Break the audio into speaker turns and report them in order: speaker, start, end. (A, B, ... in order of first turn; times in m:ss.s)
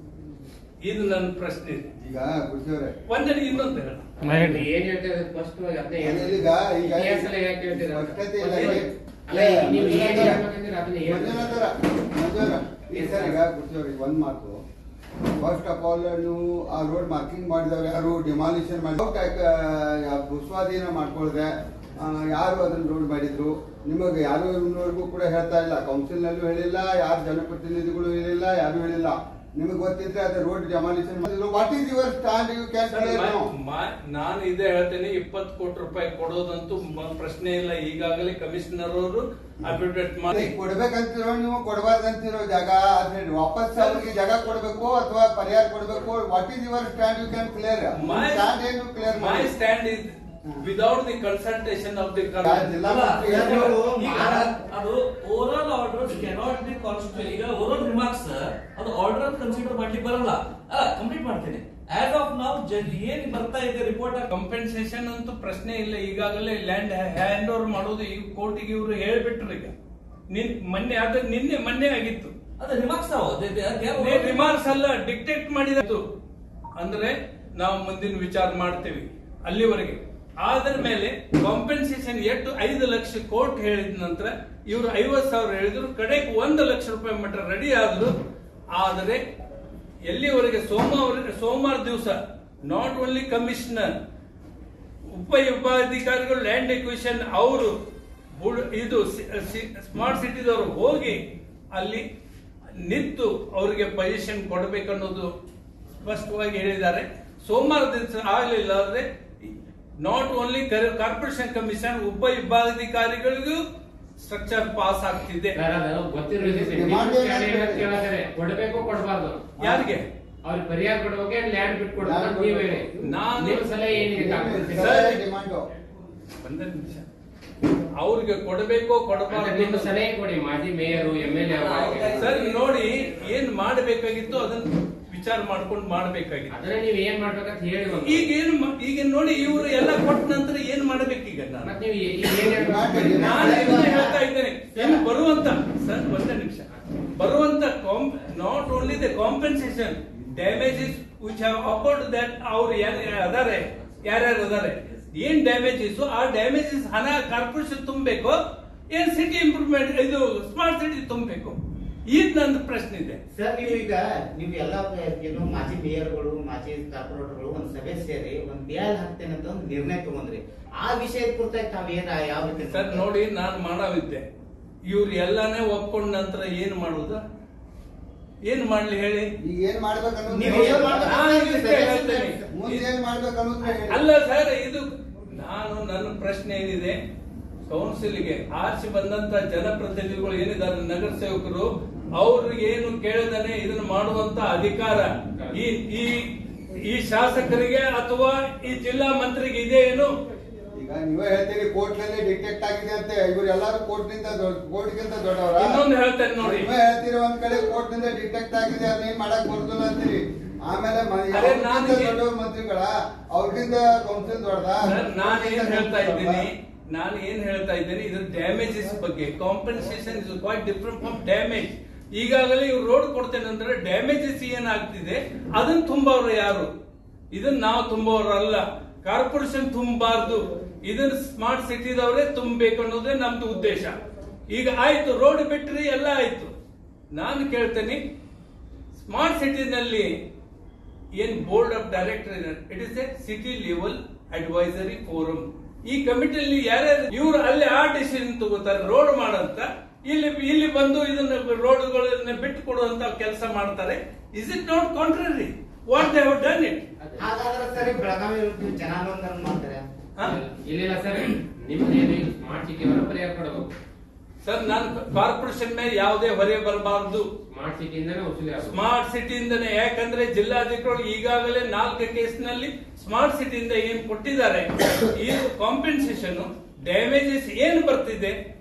0:00.8-0:01.9 A
0:02.0-0:02.9 B
0:03.1-0:04.1 A
0:04.2-0:11.6 C
0:06.0-0:10.4 B
0:11.0-0:14.6 B
0:12.9-0:13.4 C
0:15.4-0:33.5 B
0:32.9-0:40.5 A
0:40.3-0:49.5 B
0:48.0-0:48.5 A
0:49.2-0:52.9 A
0:52.4-0:53.8 B
0:52.8-1:04.3 D
0:53.2-0:54.6 E
1:04.3-1:09.7 A
1:10.3-1:12.3 A
1:12.6-1:14.3 D
1:13.9-1:16.0 A
1:16.8-1:28.1 A
1:28.7-1:29.2 A
1:30.0-1:33.9 A
1:35.1-1:37.8 A
1:38.4-1:41.2 A
1:41.7-1:42.0 A
1:42.8-1:45.3 A
1:46.0-1:53.6 A
1:54.2-1:55.6 A
1:55.6-1:59.4 C
1:56.4-1:58.0 B
1:59.6-2:00.1 A
1:59.6-1:59.9 B
2:00.4-2:05.0 C
2:02.0-2:02.9 B
2:03.0-2:03.7 A
2:03.9-2:05.7 B
2:04.8-2:05.2 A
2:06.4-2:07.1 A
2:08.0-2:10.0 A
2:09.3-2:12.3 C
2:11.6-2:16.6 A
2:11.9-2:12.4 B
2:16.5-2:18.3 C
2:18.0-2:21.8 A
2:21.6-2:23.7 C
2:22.4-2:23.9 B
2:23.2-2:38.4 A
2:23.3-2:24.2 E
2:24.7-2:25.0 E
2:38.9-2:41.6 A
2:42.1-2:43.2 A
2:43.3-2:53.1 E
2:52.6-2:54.2 A
2:54.9-2:57.2 A
2:58.5-2:59.3 A
2:59.4-3:01.2 B
3:00.3-3:02.5 E
3:00.4-3:02.9 A
3:02.5-3:04.0 B
3:03.9-3:07.0 A
3:07.7-3:20.1 A
3:20.7-3:25.8 B
3:25.6-3:26.7 A
3:26.4-3:36.5 B
3:31.3-3:32.2 A
3:34.8-3:46.7 A
3:47.3-3:54.0 A
3:54.5-3:56.5 A
3:57.1-3:58.0 A
3:58.9-4:00.1 A
4:01.2-4:16.8 A
4:17.0-4:17.3 C
4:17.2-4:19.8 E
4:20.2-4:23.7 C
4:24.4-4:27.3 A
4:27.5-4:28.8 C
4:28.6-4:38.4 A